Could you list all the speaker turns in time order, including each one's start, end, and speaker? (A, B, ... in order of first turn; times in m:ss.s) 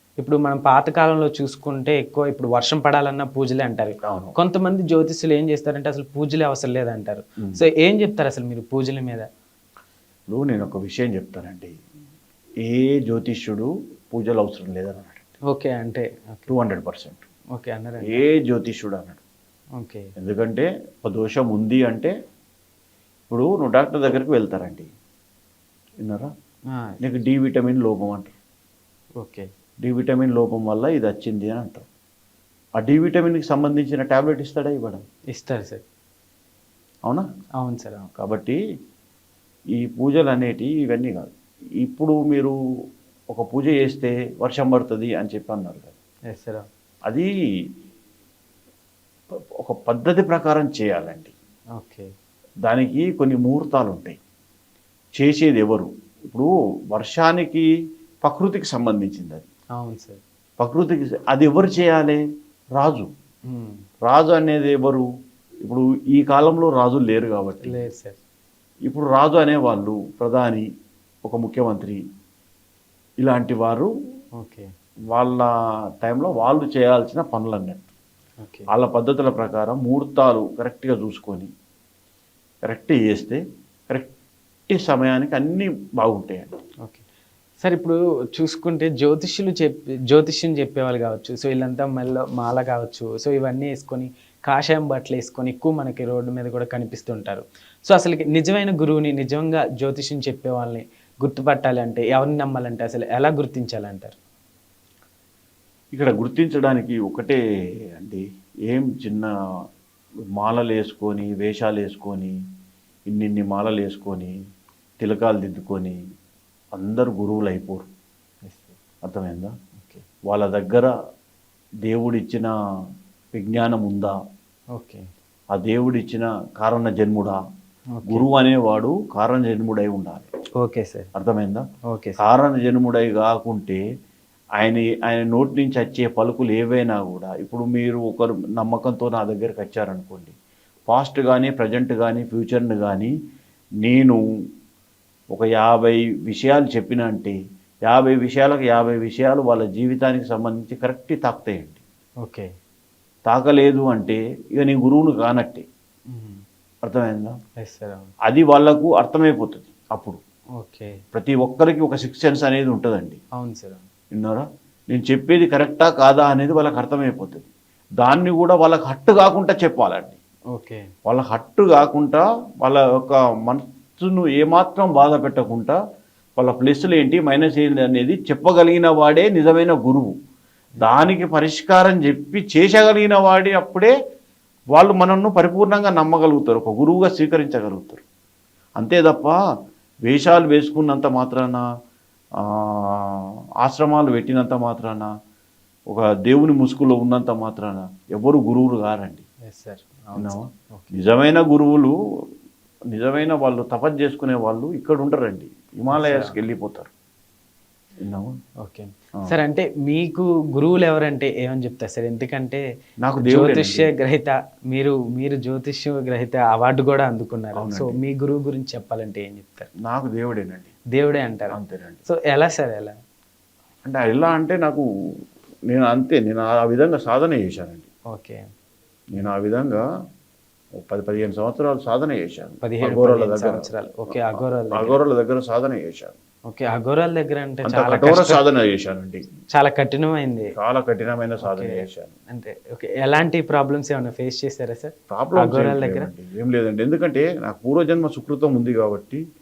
0:00.2-0:09.3 A
0:04.0-0:04.3 B
0:10.3-0:11.7 B
0:12.6-0:15.3 B
0:15.5-0:16.5 A
0:16.5-0:17.2 B
0:17.5-0:18.2 A
0:18.0-0:19.2 B
0:19.8-0:20.1 A
0:20.2-0:22.1 B
0:23.3-0:24.9 B
0:26.0-0:26.3 B
0:26.7-0:27.0 A
0:27.0-0:28.3 B
0:29.2-0:29.5 A
0:29.8-0:31.8 B
0:32.8-0:35.0 B
0:35.3-0:35.8 A
0:37.6-0:38.1 A
0:38.2-0:38.6 B
0:39.8-0:42.6 B
0:43.3-0:45.9 B
0:46.3-0:46.7 A
0:49.6-0:51.3 B
0:51.8-0:52.1 A
0:52.7-0:54.2 B
0:55.2-0:57.7 B
0:58.2-0:59.5 B
0:59.8-1:00.2 A
1:00.6-1:02.2 B
1:02.8-1:03.1 B
1:03.5-1:03.8 A
1:04.0-1:05.1 B
1:05.6-1:07.8 B
1:07.6-1:08.2 A
1:08.9-1:10.6 B
1:11.2-1:12.0 B
1:13.2-1:13.9 B
1:14.4-1:14.7 A
1:15.1-1:15.5 B
1:16.0-1:17.8 B
1:18.4-1:18.7 A
1:18.7-1:21.5 B
1:22.6-1:24.1 B
1:24.7-1:26.6 B
1:27.6-1:44.2 A
1:45.9-1:47.4 B
1:48.0-1:49.3 B
1:50.4-1:52.3 B
1:53.1-1:54.3 B
1:55.0-1:56.0 B
1:56.7-1:57.9 B
1:58.4-1:58.8 A
1:59.0-1:59.5 B
2:00.3-2:00.9 B
2:01.8-2:02.5 B
2:03.3-2:04.2 B
2:04.7-2:05.1 A
2:05.5-2:07.4 B
2:07.9-2:08.2 A
2:08.1-2:10.3 B
2:10.6-2:11.1 A
2:11.1-2:11.6 B
2:11.8-2:12.2 A
2:12.2-2:13.8 B
2:14.6-2:20.3 B
2:20.9-2:23.1 B
2:23.8-2:24.2 B
2:25.3-2:31.8 B
2:32.2-2:32.5 A
2:33.3-2:35.6 B
2:36.1-2:36.4 A
2:36.8-2:37.4 B
2:37.6-2:38.1 A
2:38.2-2:40.2 B
2:40.6-2:41.0 A
2:41.1-2:43.2 B
2:43.4-2:43.8 A
2:44.1-2:47.4 B
2:48.0-2:50.2 B
2:50.5-2:50.9 A
2:51.0-2:55.8 B
2:56.4-3:00.1 B
3:00.8-3:03.9 B
3:04.7-3:08.0 B
3:08.8-3:09.4 B
3:10.0-3:11.6 B
3:12.4-3:15.1 B
3:15.9-3:19.2 B
3:19.5-3:21.0 A
3:20.2-3:21.9 B
3:22.9-3:26.9 B
3:25.9-3:26.4 A
3:28.0-3:28.3 B
3:28.6-3:32.6 A
3:33.0-3:33.9 B
3:33.2-3:39.7 A
3:37.6-3:38.0 B
3:39.8-3:40.7 B
3:40.9-3:42.9 A
3:41.5-3:42.0 B
3:43.8-3:44.8 B
3:45.7-3:47.8 B
3:48.1-3:48.4 A
3:49.1-3:49.8 B
3:50.8-3:56.2 B
3:52.6-3:55.0 A
3:56.5-3:58.4 A
3:57.6-3:59.2 B
3:59.5-4:00.5 A
4:00.5-4:02.1 B
4:01.4-4:06.1 A
4:05.1-4:09.2 B